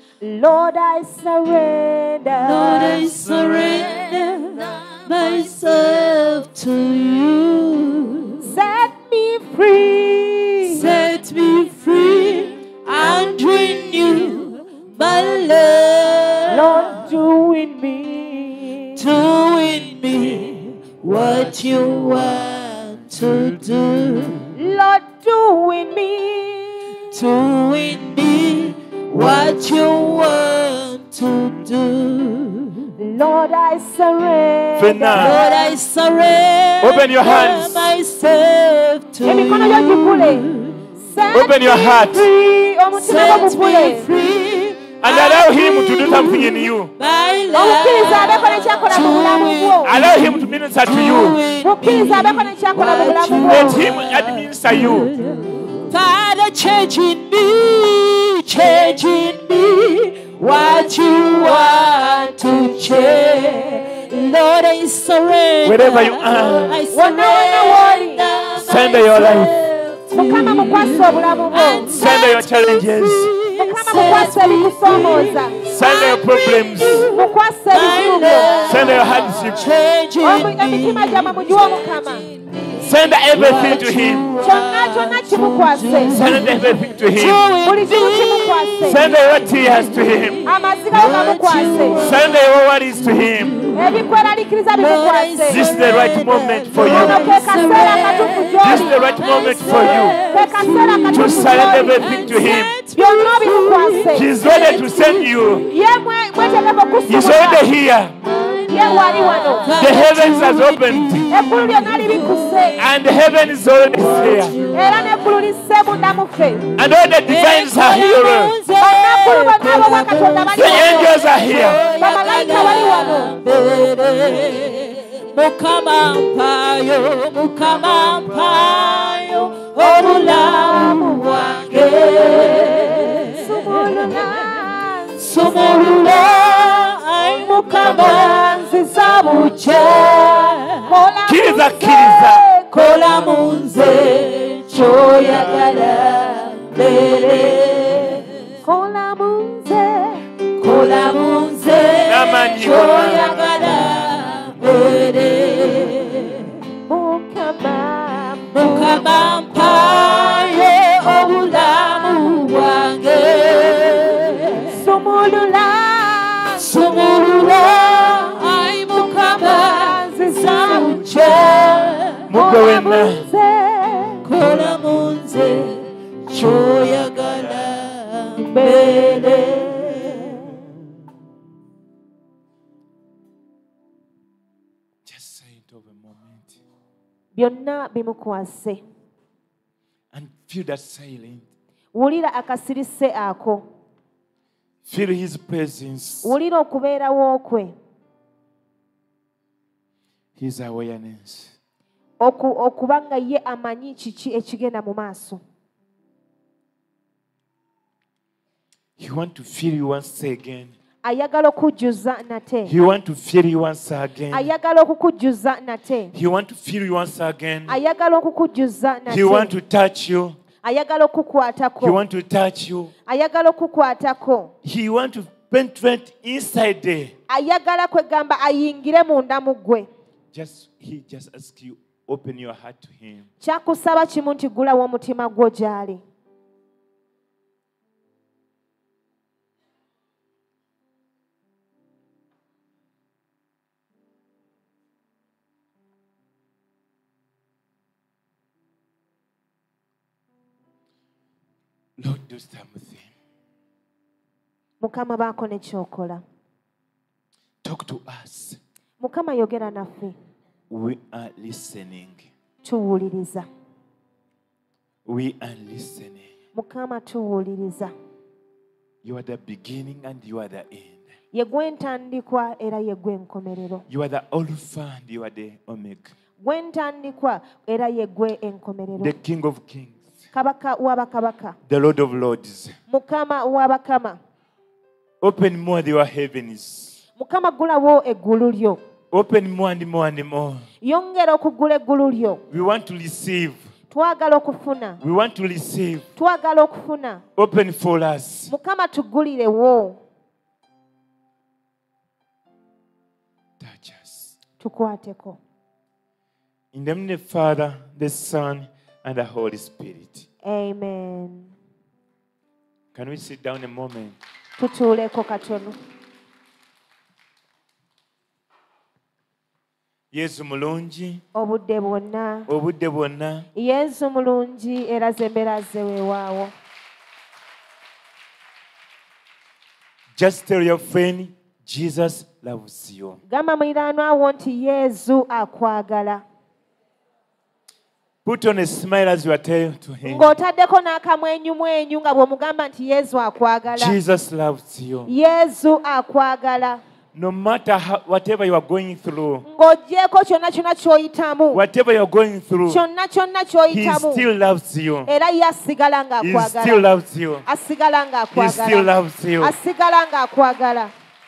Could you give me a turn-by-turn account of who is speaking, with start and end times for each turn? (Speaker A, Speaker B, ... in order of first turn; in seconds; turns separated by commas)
Speaker A: 0.2-3.0, Speaker B: 2.4-8.4, Speaker A: 8.4-10.9, Speaker B: 10.7-17.0, Speaker A: 16.5-19.0, Speaker B: 19.0-24.5, Speaker A: 24.6-26.9, Speaker B: 27.1-33.0, Speaker A: 33.0-35.7, Speaker C: 34.8-35.4, Speaker B: 35.1-40.9, Speaker C: 36.8-37.9, Speaker A: 39.2-44.1, Speaker C: 41.3-42.3, Speaker B: 43.0-92.4, Speaker C: 45.0-46.9, Speaker A: 47.5-50.0, Speaker C: 49.8-51.4, Speaker A: 51.6-53.8, Speaker C: 53.5-55.1, Speaker C: 65.6-66.8, Speaker A: 66.9-68.2, Speaker C: 68.6-69.5, Speaker A: 70.2-72.0, Speaker C: 71.9-73.3, Speaker A: 73.6-75.6, Speaker C: 75.7-77.1, Speaker A: 77.0-78.6, Speaker C: 78.6-79.7, Speaker A: 80.2-82.3, Speaker C: 82.8-84.3, Speaker A: 84.4-86.2, Speaker C: 86.1-87.5, Speaker A: 87.5-89.0, Speaker C: 88.8-90.4, Speaker A: 90.4-92.1, Speaker C: 91.9-93.6, Speaker B: 93.0-105.8, Speaker A: 93.7-95.6, Speaker C: 95.5-97.2, Speaker A: 96.8-99.0, Speaker C: 98.6-100.2, Speaker A: 100.1-104.3, Speaker C: 101.1-102.8, Speaker C: 104.1-105.7, Speaker A: 105.7-107.7, Speaker C: 107.1-108.2, Speaker B: 108.3-113.0, Speaker A: 108.7-109.7, Speaker C: 109.7-111.3, Speaker A: 111.3-112.8, Speaker C: 112.8-114.6, Speaker B: 114.0-115.5, Speaker A: 114.7-116.7, Speaker C: 116.8-118.6, Speaker B: 117.2-138.6, Speaker A: 118.8-121.2, Speaker C: 120.6-121.8, Speaker A: 121.9-123.4, Speaker A: 129.8-131.0, Speaker A: 132.4-139.8, Speaker B: 139.1-140.9, Speaker A: 140.8-143.0, Speaker C: 141.3-142.4, Speaker B: 142.7-148.3, Speaker A: 144.7-146.6, Speaker A: 148.6-150.2, Speaker B: 150.6-156.6, Speaker C: 152.0-153.4, Speaker A: 152.8-153.2, Speaker A: 156.9-159.1, Speaker B: 158.5-164.8, Speaker A: 164.7-171.3, Speaker B: 166.6-172.3, Speaker C: 172.3-173.2, Speaker A: 172.3-174.2, Speaker B: 174.2-180.5, Speaker A: 178.5-180.3, Speaker C: 185.1-186.6, Speaker A: 187.3-188.8, Speaker C: 190.1-191.4, Speaker A: 191.9-193.7, Speaker C: 194.9-196.3, Speaker A: 196.2-197.8, Speaker C: 200.4-201.5, Speaker A: 202.2-205.4, Speaker C: 209.0-210.7, Speaker A: 211.0-212.7, Speaker C: 212.7-214.5, Speaker A: 214.3-216.1, Speaker C: 216.1-217.8, Speaker A: 217.7-219.5, Speaker C: 219.1-220.4, Speaker A: 220.6-222.0, Speaker C: 221.8-222.9, Speaker A: 223.1-224.5, Speaker C: 224.6-227.1, Speaker A: 227.3-229.9, Speaker C: 230.3-233.3, Speaker A: 233.4-236.0, Speaker C: 252.0-253.1, Speaker A: 254.8-256.2, Speaker C: 257.6-258.6, Speaker A: 259.0-260.2, Speaker C: 260.7-262.3, Speaker A: 262.6-263.5, Speaker C: 265.1-266.3, Speaker A: 266.6-267.9, Speaker C: 269.0-271.0, Speaker A: 271.3-273.8, Speaker C: 273.9-276.1, Speaker A: 276.4-279.1, Speaker C: 279.0-280.0, Speaker A: 280.3-281.6, Speaker C: 281.7-282.8, Speaker A: 282.9-284.2, Speaker C: 285.2-287.0, Speaker A: 287.2-288.8, Speaker C: 289.1-290.6, Speaker A: 290.8-292.4, Speaker C: 292.5-293.6, Speaker A: 293.9-295.0, Speaker C: 295.0-296.1, Speaker A: 296.2-297.2, Speaker C: 297.4-298.5, Speaker A: 298.5-300.0, Speaker C: 303.6-304.3, Speaker A: 304.6-305.4, Speaker C: 306.7-310.3, Speaker A: 310.4-311.5, Speaker C: 312.9-314.2, Speaker A: 314.6-315.8, Speaker C: 320.1-321.2, Speaker A: 321.4-322.5, Speaker C: 322.5-323.5, Speaker A: 323.6-326.5, Speaker C: 330.1-333.2, Speaker A: 333.3-336.2, Speaker C: 338.2-340.3, Speaker A: 340.1-344.0, Speaker C: 343.7-345.1, Speaker A: 345.1-346.8, Speaker C: 347.1-349.4, Speaker A: 349.5-351.6, Speaker C: 351.5-352.8, Speaker A: 352.7-354.2, Speaker C: 353.7-355.1, Speaker A: 355.1-356.9, Speaker C: 356.2-357.4, Speaker A: 357.5-360.9, Speaker C: 358.4-359.5